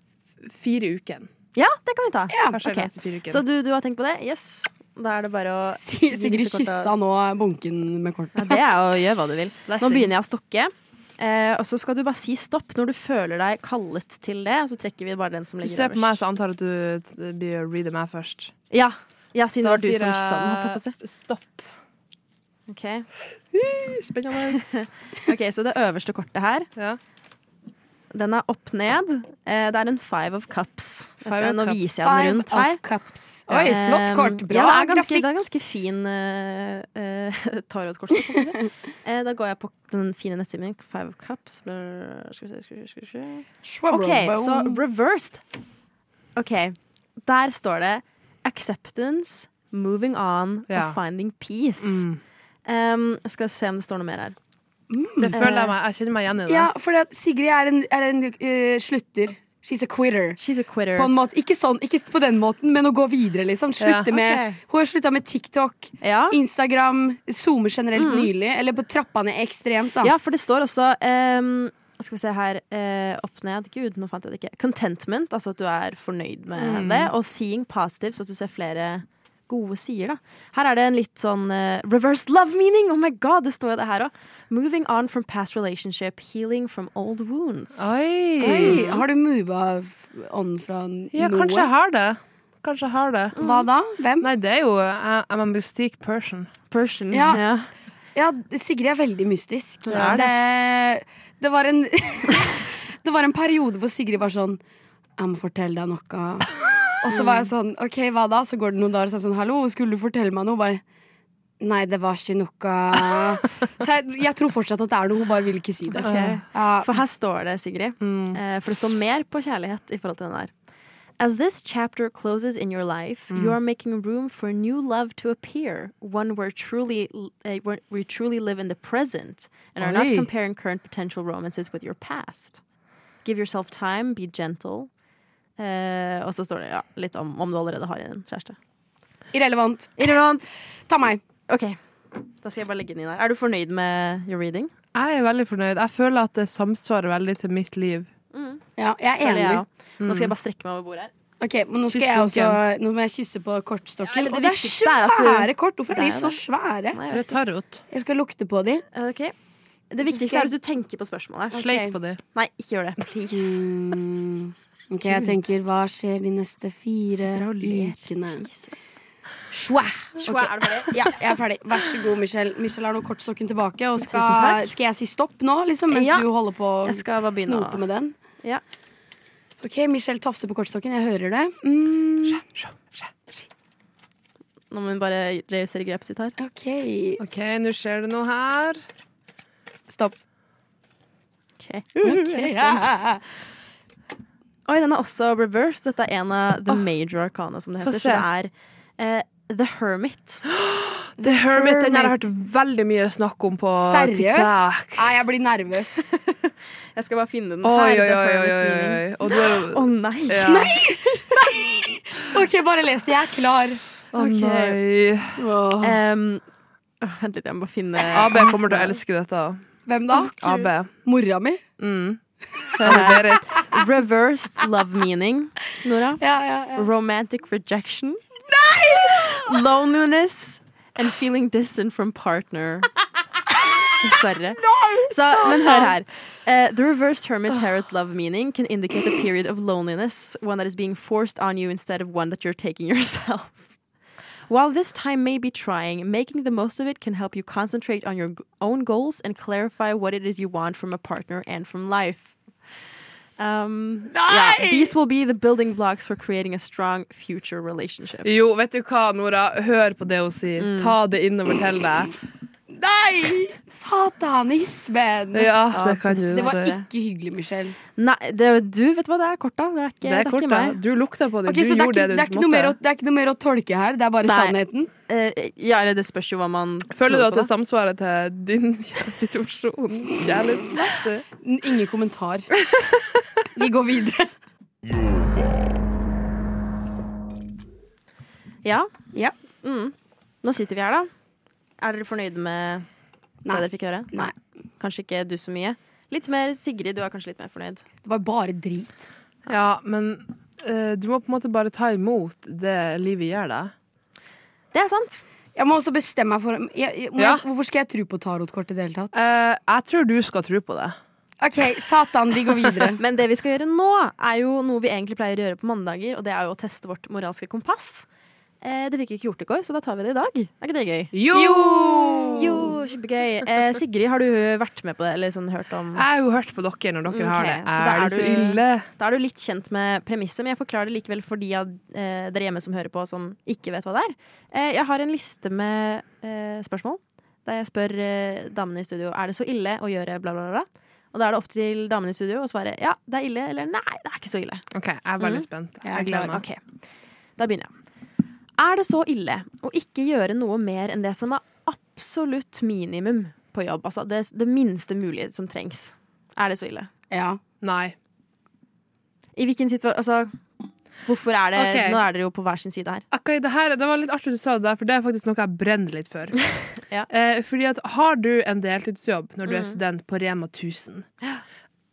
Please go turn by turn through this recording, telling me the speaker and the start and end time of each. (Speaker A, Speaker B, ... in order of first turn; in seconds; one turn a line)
Speaker A: 0.4-1.3
Speaker B: 1.5-6.9
Speaker C: 2.3-2.6
Speaker A: 2.5-3.4
Speaker C: 5.8-8.6
Speaker B: 8.3-16.2
Speaker A: 9.7-10.1
Speaker A: 15.6-18.5
Speaker B: 18.7-20.9
Speaker A: 19.6-21.7
Speaker B: 22.7-23.1
Speaker A: 23.5-24.8
Speaker B: 24.5-26.7
Speaker B: 28.1-32.8
Speaker A: 31.2-31.8
Speaker C: 32.0-35.4
Speaker A: 33.5-33.8
Speaker B: 33.7-45.4
Speaker C: 43.6-44.8
Speaker B: 46.4-52.0
Speaker A: 50.7-51.0
Speaker A: 51.8-52.2
Speaker B: 52.6-54.4
Speaker C: 54.9-55.6
Speaker A: 55.2-56.7
Speaker B: 55.3-55.6
Speaker C: 56.5-60.4
Speaker B: 60.4-61.1
Speaker C: 61.0-70.1
Speaker A: 63.8-64.1
Speaker B: 64.1-64.6
Speaker B: 66.0-66.4
Speaker B: 67.9-68.3
Speaker B: 70.0-87.9
Speaker A: 76.5-77.1
Speaker A: 87.8-88.8
Speaker C: 88.4-91.7
Speaker B: 88.6-89.0
Speaker A: 91.1-93.3
Speaker B: 93.3-93.7
Speaker C: 93.4-94.3
Speaker A: 94.2-96.5
Speaker B: 96.7-97.7
Speaker C: 97.1-97.4
Speaker C: 98.1-104.6
Speaker B: 99.8-100.2
Speaker A: 99.9-100.3
Speaker C: 105.2-106.5
Speaker C: 107.0-110.8
Speaker B: 107.1-107.5
Speaker C: 111.6-116.9
Speaker B: 116.0-120.5
Speaker A: 116.0-116.4
Speaker A: 118.0-118.4
Speaker B: 121.2-132.6
Speaker A: 123.3-123.5
Speaker A: 129.8-130.3
Speaker B: 133.2-134.9
Speaker B: 135.6-138.6
Speaker C: 139.3-140.2
Speaker B: 140.0-140.4
Speaker C: 140.9-141.2
Speaker B: 141.5-144.7
Speaker A: 144.9-148.1
Speaker B: 148.3-148.6
Speaker C: 148.8-149.6
Speaker B: 149.2-151.1
Speaker A: 150.0-150.3
Speaker C: 151.4-157.0
Speaker A: 151.8-152.6
Speaker B: 154.0-156.4
Speaker B: 156.9-157.4
Speaker A: 157.1-157.8
Speaker C: 157.9-158.8
Speaker B: 158.9-159.3
Speaker B: 159.9-161.7
Speaker C: 160.0-160.5
Speaker C: 161.5-161.9
Speaker A: 161.6-162.2
Speaker B: 162.3-163.6
Speaker C: 163.3-168.4
Speaker B: 165.1-165.3
Speaker B: 167.1-168.7
Speaker C: 169.5-178.1
Speaker B: 170.2-171.2
Speaker B: 174.1-174.7
Speaker B: 175.9-176.3
Speaker B: 176.8-177.8
Speaker C: 179.6-182.4
Speaker A: 182.2-183.1
Speaker B: 184.7-186.3
Speaker C: 186.4-187.2
Speaker A: 187.2-188.8
Speaker B: 191.6-193.0
Speaker C: 192.0-193.2
Speaker B: 194.7-200.4
Speaker A: 197.8-198.2
Speaker A: 200.5-205.0
Speaker C: 201.2-202.2
Speaker C: 203.8-206.1
Speaker B: 206.1-210.7
Speaker A: 207.6-210.8
Speaker C: 210.4-213.8
Speaker A: 214.1-215.4
Speaker B: 214.1-214.8
Speaker C: 215.4-216.0
Speaker B: 215.8-216.4
Speaker B: 217.0-218.9
Speaker A: 218.1-219.6
Speaker C: 219.9-221.6
Speaker B: 220.1-220.7
Speaker A: 220.4-220.9
Speaker A: 221.8-222.2
Speaker A: 222.8-223.6
Speaker B: 222.8-228.2
Speaker C: 222.8-223.1
Speaker C: 226.2-226.8
Speaker C: 228.5-229.6
Speaker B: 228.9-232.9
Speaker B: 234.0-243.7
Speaker C: 234.6-235.9
Speaker B: 244.5-252.3
Speaker B: 253.4-258.3
Speaker C: 254.1-254.9
Speaker A: 258.2-262.1
Speaker B: 260.6-261.0
Speaker C: 262.7-265.5
Speaker A: 265.3-266.7
Speaker B: 265.7-266.9
Speaker C: 266.3-267.8
Speaker B: 267.9-270.8
Speaker A: 270.0-272.8
Speaker C: 271.4-274.9
Speaker B: 274.2-274.6
Speaker B: 275.1-277.5
Speaker A: 276.9-281.2
Speaker C: 281.4-282.5
Speaker C: 283.5-284.3
Speaker B: 288.6-288.9
Speaker B: 289.6-291.1
Speaker B: 291.8-292.9
Speaker C: 293.4-294.3
Speaker B: 293.5-297.8
Speaker C: 298.0-299.1
Speaker A: 299.5-303.7
Speaker B: 304.7-305.2
Speaker C: 305.6-309.2
Speaker A: 307.2-307.4
Speaker A: 309.1-311.0
Speaker C: 311.4-313.0
Speaker B: 313.0-318.1
Speaker B: 318.6-321.2
Speaker A: 321.1-322.7
Speaker C: 321.3-322.6
Speaker B: 322.3-326.1
Speaker A: 325.9-328.9
Speaker B: 327.1-344.6
Speaker A: 344.7-346.4
Speaker B: 345.2-345.5
Speaker C: 345.8-346.3
Speaker B: 346.0-346.6
Speaker B: 347.4-347.7
Speaker B: 348.6-356.9
Speaker C: 357.1-357.4
Speaker A: 357.6-357.9
Speaker B: 359.4-360.4
Speaker B: 361.0-363.0
Speaker A: 361.5-362.0
Speaker A: 363.1-366.4
Speaker A: 367.1-371.1
Speaker B: 369.4-369.8